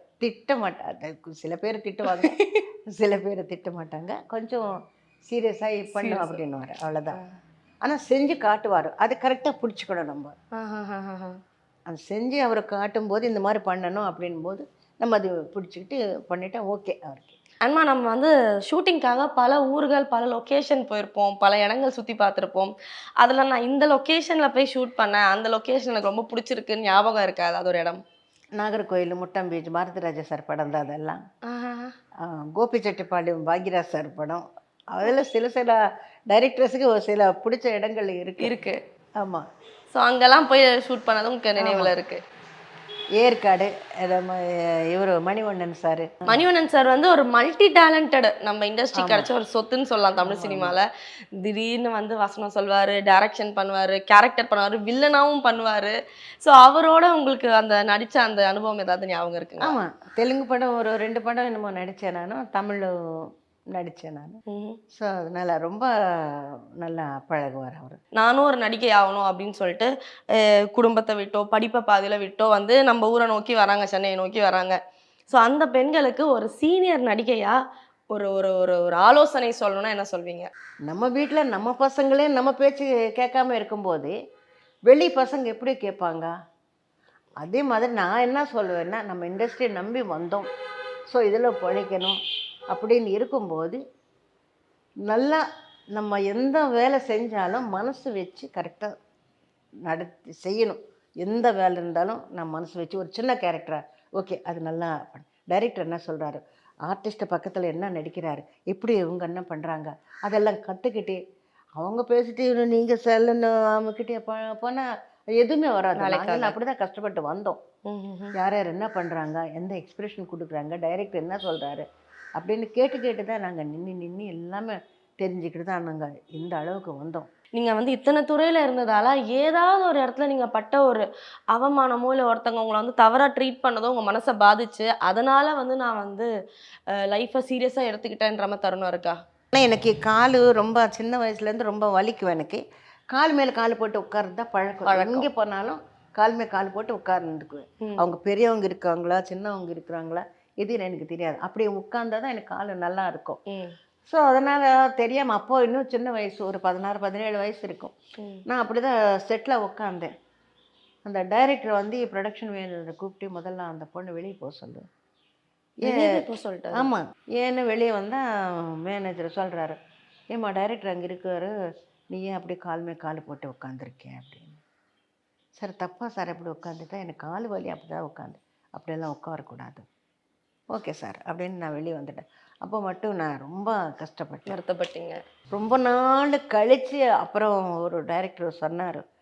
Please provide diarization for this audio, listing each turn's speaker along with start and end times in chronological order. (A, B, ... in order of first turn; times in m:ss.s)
0:00.2-0:04.8 A
0:02.1-0:02.6 B
0:05.3-0:07.2 A
0:05.9-0:06.4 B
0:07.8-0:10.3 A
0:10.6-0:11.4 B
0:11.9-0:17.4 A
0:17.6-0:28.0 B
0:28.6-0:31.2 A
0:31.5-0:31.9 B
0:32.2-0:38.5 A
0:38.4-0:38.8 B
0:39.2-0:39.4 A
0:39.9-0:42.2 B
0:41.6-0:41.9 A
0:43.2-0:46.4 A
0:46.3-0:50.9 B
0:49.0-0:49.3 A
0:50.2-0:50.8 A
0:51.4-0:59.8 B
0:59.6-1:04.4 A
1:04.5-1:04.8 B
1:04.9-1:08.0 A
1:08.2-1:14.8 B
1:15.3-1:17.6 B
1:18.1-1:20.5 B
1:20.9-1:24.1 A
1:24.9-1:26.3 A
1:27.4-1:30.5 A
1:31.1-1:32.2 A
1:32.7-1:33.8 A
1:35.1-1:35.4 A
1:35.9-1:38.9 A
1:39.8-1:51.2 A
1:51.8-1:57.6 A
1:56.0-1:56.6 B
1:57.9-1:58.4 B
1:58.4-2:01.8 A
2:02.4-2:07.3 A
2:07.5-2:16.3 B
2:16.9-2:19.2 B
2:19.5-2:33.4 A
2:24.9-2:25.3 B
2:34.1-2:38.0 A
2:38.2-2:38.4 B
2:38.5-2:40.1 A
2:41.1-2:44.8 A
2:45.8-2:49.8 A
2:45.8-2:46.9 B
2:50.3-2:51.5 A
2:52.1-2:54.6 A
2:55.6-2:59.8 A
3:00.7-3:04.6 A
3:04.5-3:05.2 B
3:05.5-3:09.0 A